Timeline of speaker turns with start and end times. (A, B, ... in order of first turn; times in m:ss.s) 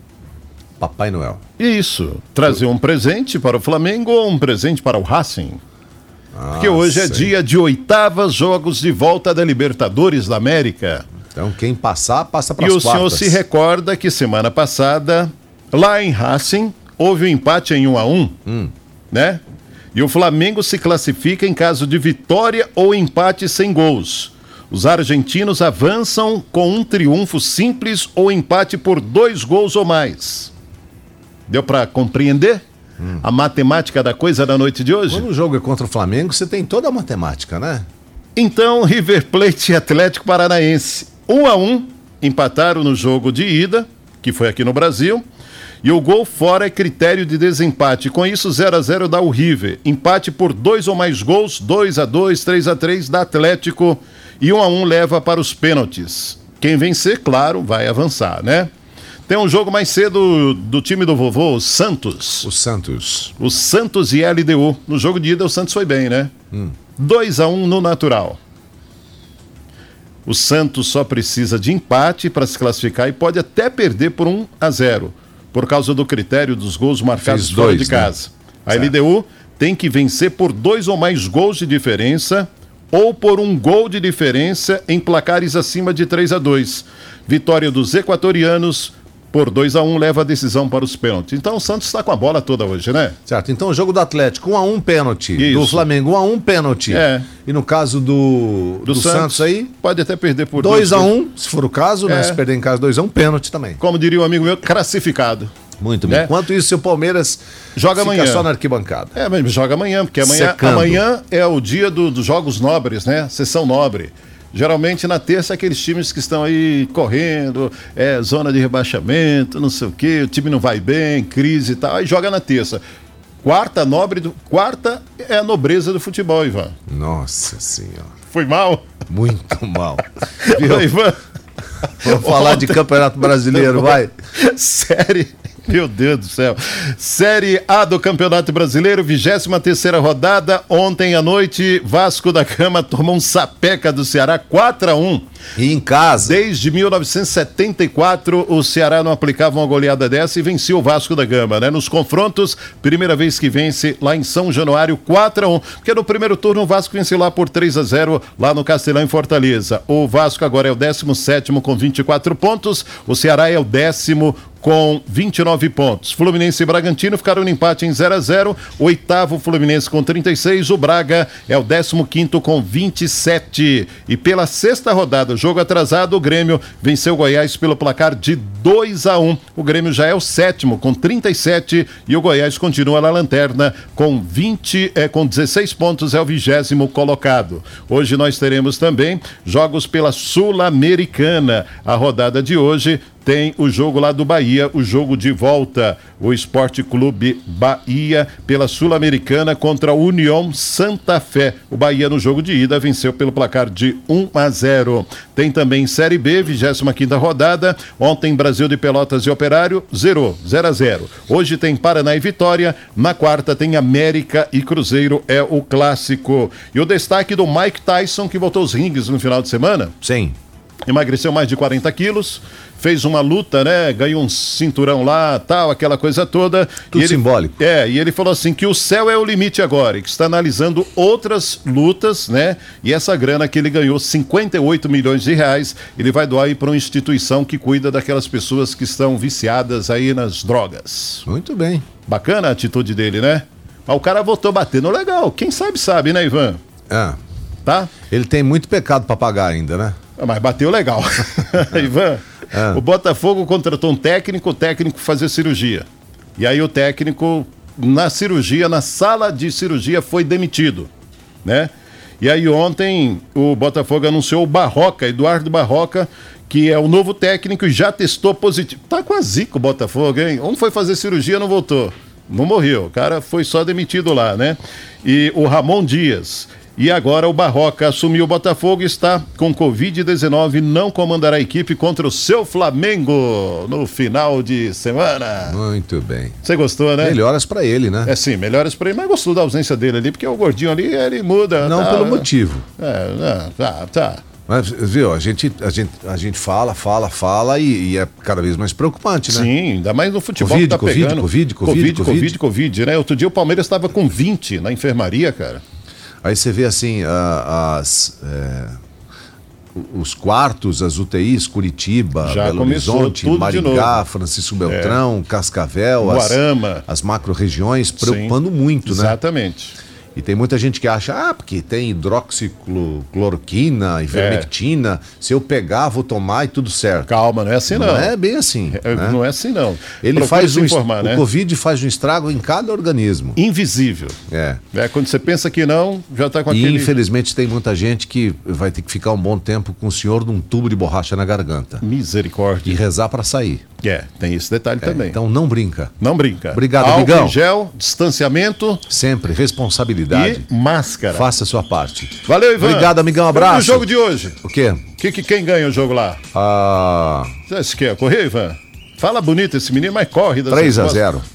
0:00.8-0:01.4 A
0:01.6-0:05.6 B
0:06.3-0:07.3 A
0:06.6-0:11.1 B
0:11.3-0:13.4 A
0:12.6-0:18.4 B
0:18.5-0:18.7 A
0:19.1-0:19.4 B
0:19.9-0:30.5 B
0:31.5-0:32.6 B
0:33.2-0:35.3 B
0:35.1-0:37.9 A
0:38.4-0:45.2 B
0:45.8-0:58.7 B
0:59.3-1:02.5 B
1:02.4-1:03.3 A
1:03.4-1:06.3 B
1:07.0-1:08.4 B
1:10.3-1:33.2 B
1:17.2-1:18.1 A
1:33.3-1:39.7 A
1:35.4-1:35.9 B
1:36.9-1:37.3 B
1:38.9-1:41.1 B
1:40.6-1:43.8 A
1:42.1-1:42.4 B
1:43.8-1:45.5 B
1:45.8-1:47.4 A
1:46.0-1:46.3 B
1:47.8-1:48.5 B
1:48.0-1:49.2 A
1:49.2-2:02.8 B
1:50.2-1:51.0 A
2:03.4-2:06.7 B
2:06.9-2:08.1 A
2:08.3-2:08.9 B
2:09.1-2:10.9 A
2:10.4-2:11.2 B
2:11.8-2:25.3 B
2:12.0-2:14.1 A
2:25.6-2:26.4 A
2:26.2-3:40.0 B
3:40.0-3:40.4 A
3:40.9-4:01.2 B
3:46.9-3:47.6 A
4:01.3-4:01.9 A
4:02.1-4:06.6 B
4:06.9-4:07.2 A
4:07.6-4:07.9 B
4:08.1-4:10.0 A
4:10.2-4:15.9 B
4:12.5-4:12.8 A
4:16.4-4:20.9 B
4:21.4-4:45.6 B
4:45.4-4:46.4 A
4:46.4-4:47.2 B
4:47.0-4:48.1 A
4:48.1-4:52.3 B
4:51.6-4:52.6 A
4:52.8-4:54.2 B
4:54.5-4:59.5 A
4:59.3-5:05.6 B
5:00.4-5:02.4 A
5:06.2-5:08.8 A
5:09.8-5:19.2 A
5:12.2-5:14.0 B
5:14.7-5:15.0 B
5:16.0-5:16.8 B
5:18.0-5:19.8 B
5:20.2-5:27.1 A
5:24.1-5:24.5 B
5:27.1-5:28.1 B
5:27.7-5:29.2 A
5:28.7-5:31.2 B
5:30.0-5:33.4 A
5:33.4-5:34.2 B
5:34.3-5:34.6 A
5:34.7-5:37.0 B
5:36.5-5:41.8 A
5:41.8-5:42.8 B
5:42.6-5:43.6 A
5:43.8-5:45.2 B
5:44.8-5:45.9 A
5:46.0-5:48.8 B
5:46.5-5:47.4 A
5:48.9-5:50.5 A
5:50.1-5:51.3 B
5:51.1-5:53.9 A
5:52.2-5:54.4 B
5:54.4-5:54.8 A
5:55.0-5:56.2 B
5:56.3-5:57.4 A
5:57.5-6:01.1 B
6:00.5-6:01.3 A